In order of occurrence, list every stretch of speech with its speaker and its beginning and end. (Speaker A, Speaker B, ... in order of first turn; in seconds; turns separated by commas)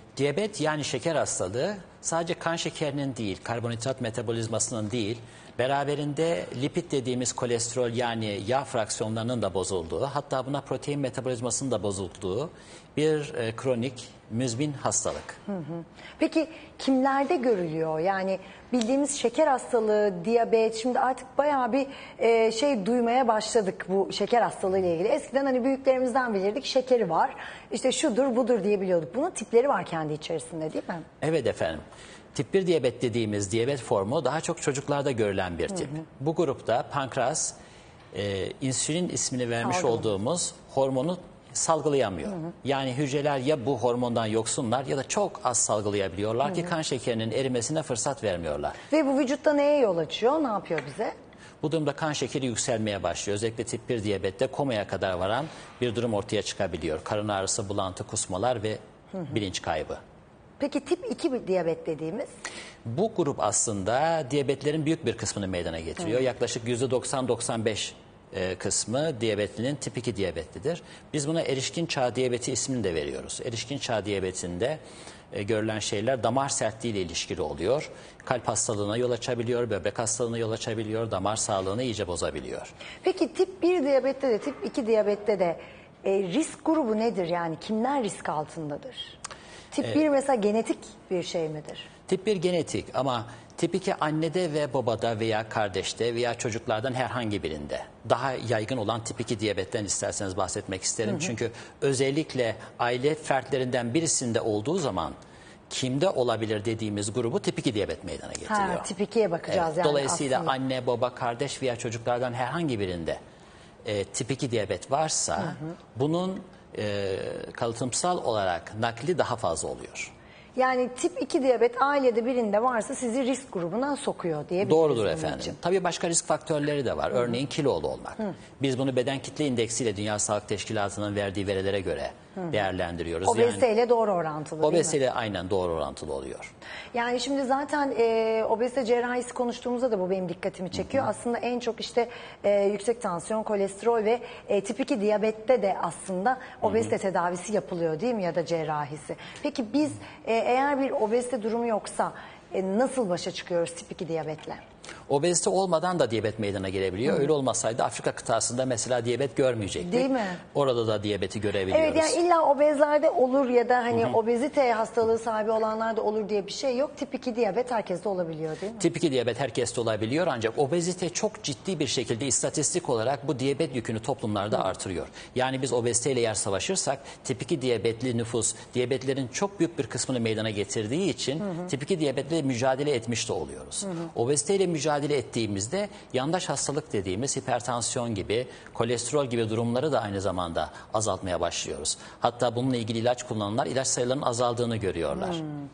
Speaker A: 0.2-15.4, Speaker B: 15.5-31.1, Speaker A: 31.2-37.5, Speaker A: 38.1-48.8, Speaker B: 39.6-40.1, Speaker B: 48.9-51.1, Speaker A: 51.6-60.0, Speaker B: 60.6-62.3, Speaker A: 62.9-74.8, Speaker A: 75.3-82.7, Speaker B: 83.0-89.2, Speaker B: 89.7-91.9, Speaker A: 92.1-105.2, Speaker A: 105.7-108.9, Speaker B: 108.5-110.5, Speaker A: 109.5-113.2, Speaker A: 113.8-120.1, Speaker B: 120.6-125.6, Speaker A: 124.6-133.7, Speaker B: 133.2-135.0, Speaker A: 134.6-136.5, Speaker B: 136.9-154.6, Speaker A: 140.8-141.0, Speaker A: 146.6-146.9, Speaker A: 155.1-162.2, Speaker B: 159.8-160.4, Speaker B: 161.7-168.9, Speaker A: 168.8-195.4, Speaker B: 195.2-195.4